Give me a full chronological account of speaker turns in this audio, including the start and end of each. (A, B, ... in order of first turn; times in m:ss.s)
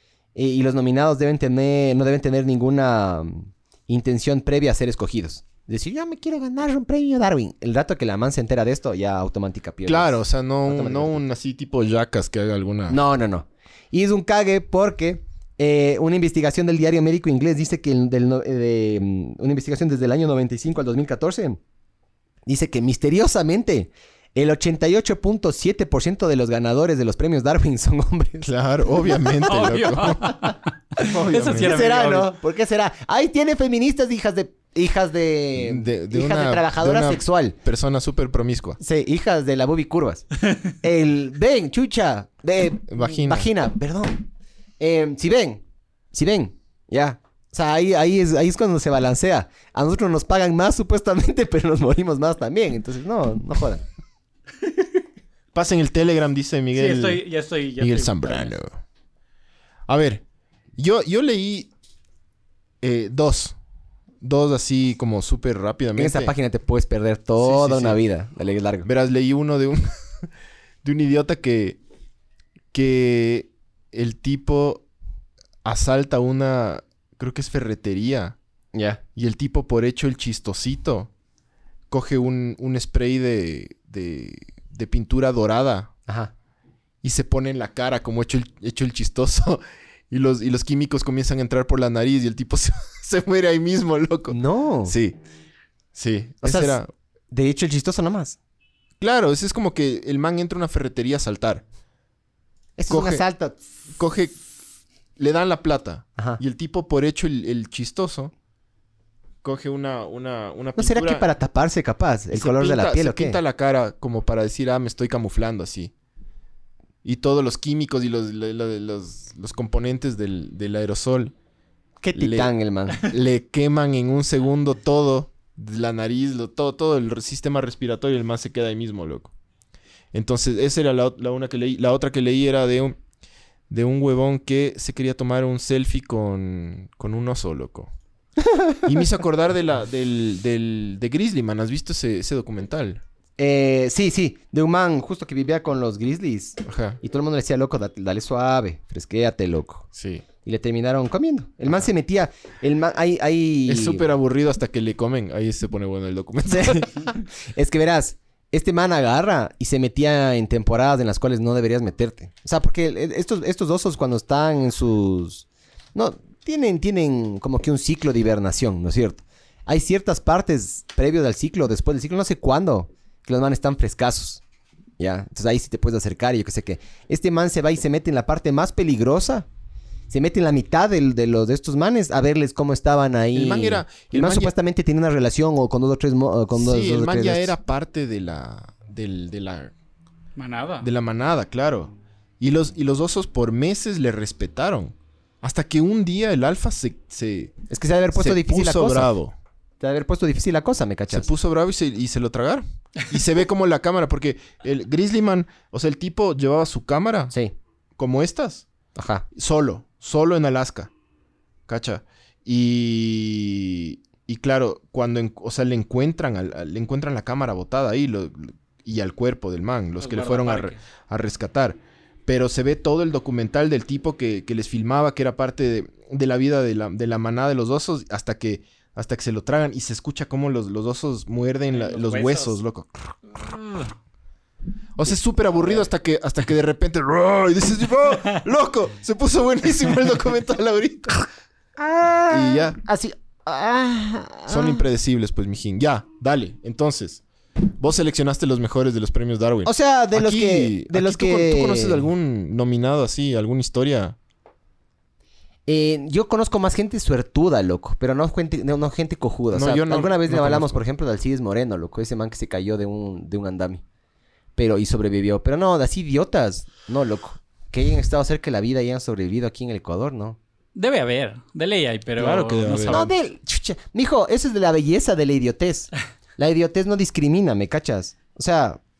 0:00.3-0:11.2 A
0:09.8-0:13.0 B
0:12.9-0:21.6 A
0:22.5-0:28.5 A
0:28.4-0:30.4 B
0:29.3-0:32.3 C
0:31.0-0:31.8 B
0:31.0-0:37.6 A
0:35.6-0:38.8 B
0:38.8-0:44.2 A
0:42.9-0:43.5 B
0:44.8-0:45.6 A
0:46.1-0:53.8 A
0:55.5-0:57.2 B
0:56.7-0:58.5 C
0:57.8-0:58.7 B
0:59.9-1:00.2 B
1:00.8-1:01.7 B
1:02.8-1:03.6 B
1:04.2-1:06.3 B
1:06.0-1:08.9 A
1:07.4-1:08.0 B
1:08.8-1:10.3 B
1:10.8-1:11.8 B
1:12.7-1:14.8 B
1:15.6-1:18.4 B
1:18.7-1:19.0 A
1:19.1-1:21.1 B
1:21.9-1:25.9 B
1:26.1-1:26.3 A
1:27.0-1:35.2 B
1:34.3-1:34.9 A
1:35.9-1:36.9 B
1:36.4-1:36.8 A
1:37.3-1:38.4 A
1:39.0-1:41.6 B
1:42.8-1:43.6 A
1:42.9-1:43.2 B
1:44.0-1:44.4 B
1:45.2-1:48.3 B
1:49.4-1:51.2 B
1:50.8-1:53.4 A
1:52.3-1:55.9 B
1:57.0-2:01.3 B
2:02.0-2:03.1 A
2:02.1-2:09.3 B
2:10.1-2:13.0 B
2:13.7-2:17.9 B
2:18.4-2:18.8 A
2:18.8-2:23.0 B
2:23.4-2:29.9 A
2:26.6-2:27.0 B
2:29.9-2:30.2 B
2:30.4-2:34.0 A
2:33.7-2:37.2 B
2:36.5-2:54.4 A
2:55.0-2:59.4 A
3:00.1-3:07.5 A
3:03.3-3:04.5 B
3:06.5-3:09.7 B
3:10.4-3:10.9 C
3:10.8-3:17.5 B
3:17.7-3:19.1 A
3:18.1-3:19.3 B
3:19.8-3:21.3 A
3:21.1-3:27.3 B
3:28.0-3:28.6 B
3:28.9-3:29.2 A
3:29.3-3:30.9 B
3:31.7-3:53.9 B
3:40.0-3:40.8 C
3:51.7-3:52.6 C
3:55.0-4:01.3 B
4:01.8-4:04.8 A
4:02.3-4:02.8 B
4:04.5-4:07.2 B
4:07.8-4:14.2 B
4:09.6-4:12.1 A
4:15.7-4:23.8 A
4:19.5-4:20.8 B
4:24.6-4:30.4 A
4:30.7-4:33.1 C
4:32.2-4:33.1 B
4:32.9-4:38.8 A